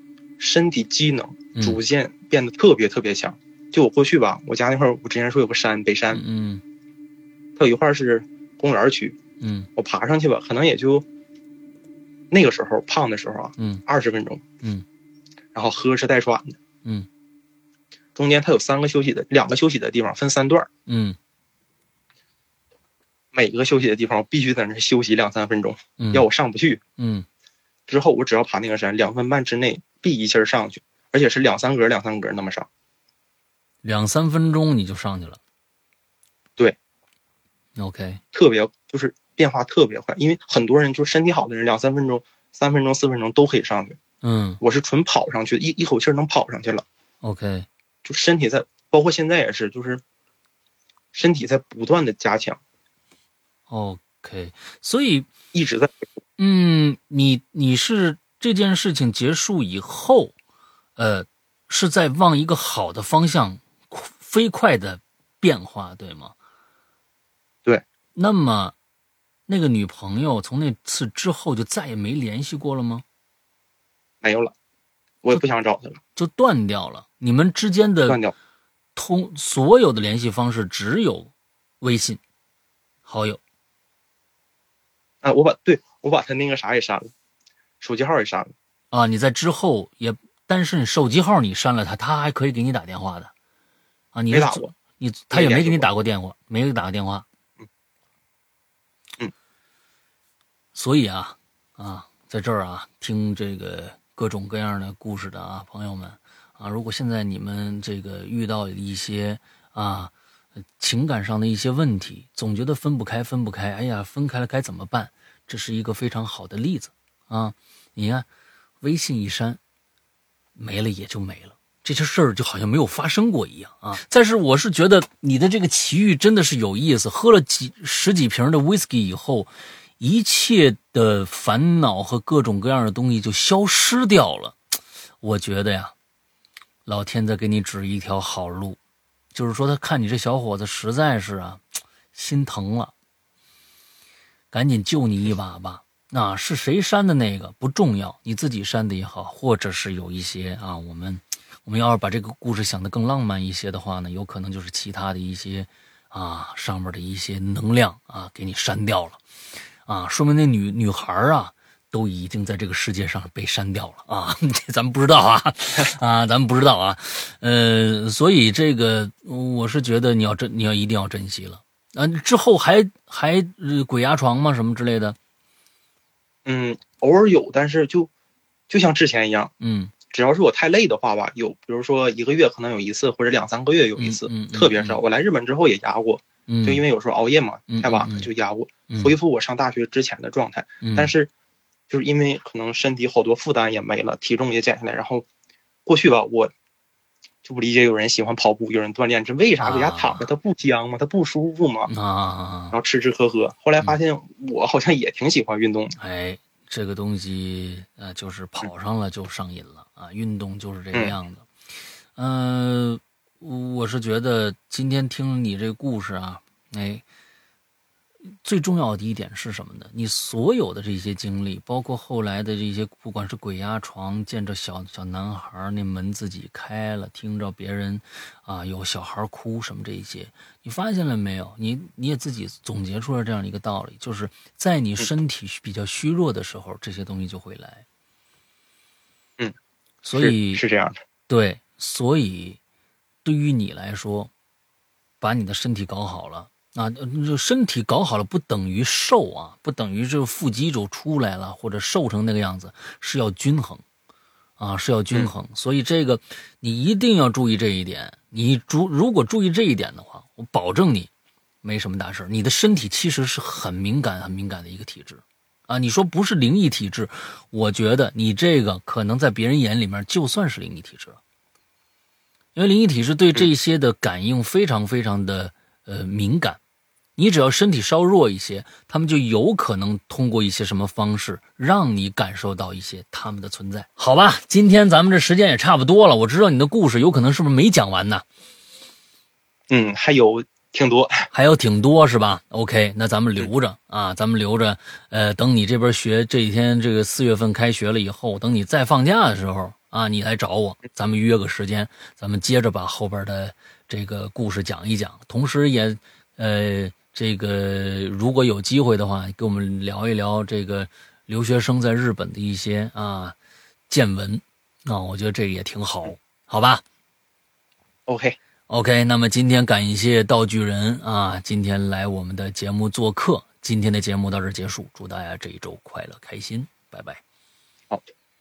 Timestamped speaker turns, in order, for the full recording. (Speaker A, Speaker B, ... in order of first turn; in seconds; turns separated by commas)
Speaker A: 0.4-6.2, Speaker B: 6.1-6.6, Speaker A: 7.6-9.2, Speaker B: 9.4-9.7, Speaker A: 9.8-11.1, Speaker A: 12.3-14.5, Speaker A: 15.5-16.6, Speaker A: 18.1-20.7, Speaker B: 20.9-21.2, Speaker A: 23.3-26.8, Speaker B: 26.0-26.3, Speaker B: 27.0-27.3, Speaker A: 27.9-32.7, Speaker B: 33.8-35.4, Speaker B: 37.8-38.2, Speaker A: 38.3-44.0, Speaker B: 44.2-44.6, Speaker A: 44.6-46.9, Speaker B: 47.2-47.7, Speaker A: 48.0-50.0, Speaker A: 51.1-52.6, Speaker B: 53.7-55.3, Speaker A: 55.5-56.0, Speaker B: 56.4-60.3, Speaker B: 61.0-66.3, Speaker B: 68.2-68.7, Speaker B: 69.5-73.0, Speaker A: 74.2-74.5, Speaker A: 75.2-76.0, Speaker B: 76.2-78.2, Speaker A: 78.1-78.3, Speaker B: 79.0-82.2, Speaker B: 83.0-83.4, Speaker A: 85.2-87.1, Speaker A: 87.8-88.5, Speaker B: 88.9-93.3, Speaker B: 94.1-97.2, Speaker A: 94.3-94.8, Speaker A: 95.3-95.9, Speaker B: 100.8-110.1, Speaker B: 110.8-118.3, Speaker B: 118.8-119.6, Speaker B: 120.6-134.6, Speaker B: 135.2-135.9, Speaker B: 136.9-138.8, Speaker B: 139.3-142.9, Speaker B: 144.5-159.2, Speaker B: 159.8-175.2, Speaker A: 176.5-178.1, Speaker A: 178.7-179.5, Speaker B: 179.6-179.9, Speaker A: 180.1-191.3, Speaker B: 184.0-185.0, Speaker B: 186.5-186.8, Speaker B: 187.7-188.3, Speaker B: 188.9-189.1, Speaker B: 190.8-191.1, Speaker A: 191.9-195.2, Speaker A: 195.9-196.5, Speaker A: 197.4-201.9, Speaker B: 199.6-200.2, Speaker B: 201.9-202.8, Speaker A: 202.7-206.0, Speaker B: 206.0-211.5, Speaker B: 212.2-217.0, Speaker B: 218.4-237.8, Speaker B: 240.0-240.6, Speaker A: 240.1-241.0, Speaker B: 241.3-242.6, Speaker B: 243.2-244.3, Speaker B: 245.2-253.8, Speaker B: 254.6-261.1, Speaker B: 261.6-271.2, Speaker B: 272.6-276.6, Speaker B: 277.2-288.2, Speaker A: 289.7-291.3, Speaker B: 291.3-313.4, Speaker B: 313.9-316.8, Speaker A: 318.1-318.4, Speaker B: 318.7-327.2